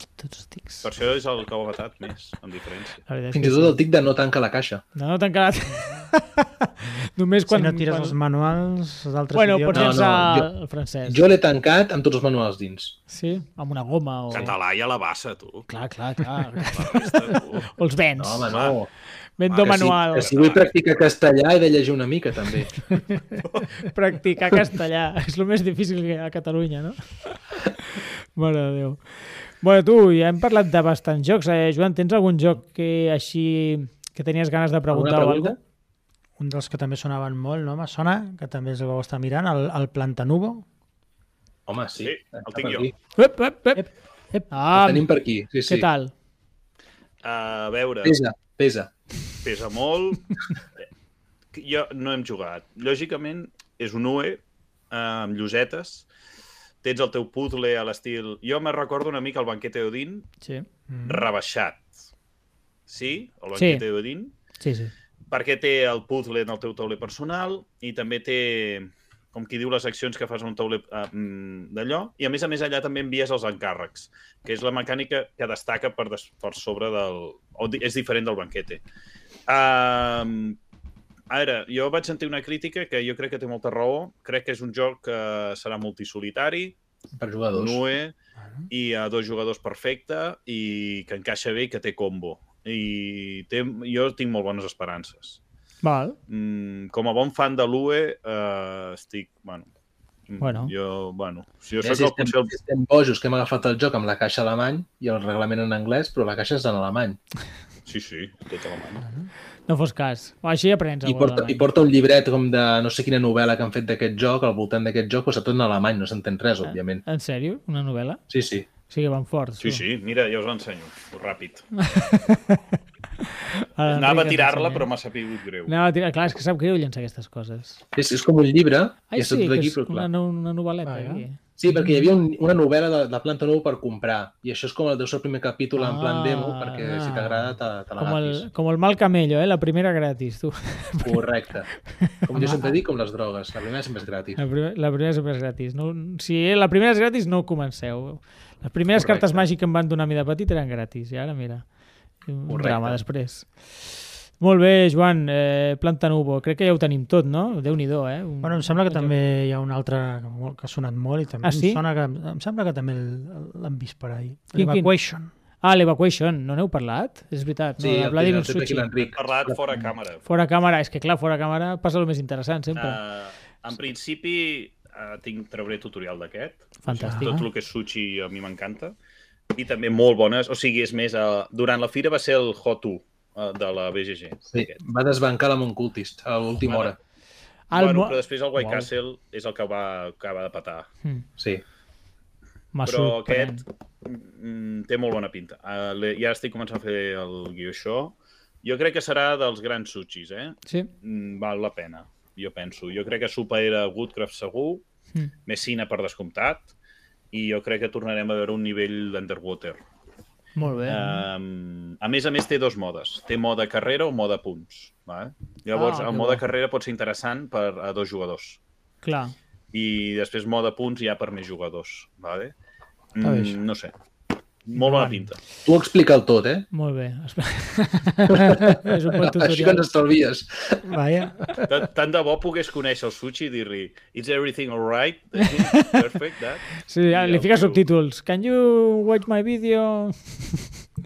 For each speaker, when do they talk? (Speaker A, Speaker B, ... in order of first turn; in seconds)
Speaker A: 0.2-0.9, 3.1-3.8, 5.0-8.2, 9.3-11.2, 13.1-14.5, 15.7-18.5, 19.4-20.3, 23.8-35.5, 43.2-43.9, 44.5-45.1, 45.7-46.1, 60.4-60.7, 63.5-63.8, 64.6-64.9, 95.8-96.2, 100.4-100.7, 109.7-111.6, 116.6-118.2, 118.9-119.8, 121.8-124.9, 125.7-127.8, 129.1-131.9, 135.8-141.2, 142.0-142.7, 144.4-151.6, 152.3-153.8, 154.4-159.1, 161.4-161.8, 164.5-164.9, 165.6-168.9, 170.3-173.0, 176.8-177.3, 187.7-188.9, 192.7-193.6, 210.6-211.2, 215.7-216.4, 219.0-219.3, 226.7-229.8, 235.4-236.0, 236.8-240.7
Speaker B: 0.8-3.0, 14.3-15.7, 16.6-17.7, 18.5-18.8, 19.5-20.7, 23.4-23.7, 42.0-42.9, 47.2-48.2, 49.4-50.4, 51.5-56.1, 56.8-60.3, 61.0-61.9, 62.9-64.3, 65.3-78.8, 79.5-80.6, 81.3-86.8, 87.5-88.1, 88.7-95.4, 96.3-99.7, 100.3-102.5, 107.9-109.0, 119.6-121.7, 123.9-125.7, 169.1-170.2, 172.7-178.9, 179.5-184.8, 186.6-186.9, 187.7-190.9, 192.8-204.8, 205.4-206.7, 207.3-209.8, 210.9-218.6, 219.7-222.5, 223.1-223.9, 224.7-225.4, 231.7-237.8
Speaker C: 3.3-4.8, 9.7-10.5, 11.1-13.0, 18.2-18.9, 19.6-22.9, 34.9-35.6, 41.7-42.9, 44.7-45.9, 48.0-48.9, 87.2-87.8, 101.8-107.2, 111.0-117.0, 118.3-118.7, 128.0-130.1, 131.6-138.4, 141.0-144.4, 148.9-149.4, 152.5-153.0, 167.8-169.6, 184.5-186.9, 225.6-226.7, 228.3-230.9
Speaker D: 7.5-10.2, 36.4-40.6, 43.7-44.5, 60.9-61.3, 109.0-109.3, 130.8-131.2, 142.3-142.7, 158.4-165.3, 177.1-177.4, 223.2-223.6, 224.8-225.3, 230.8-231.8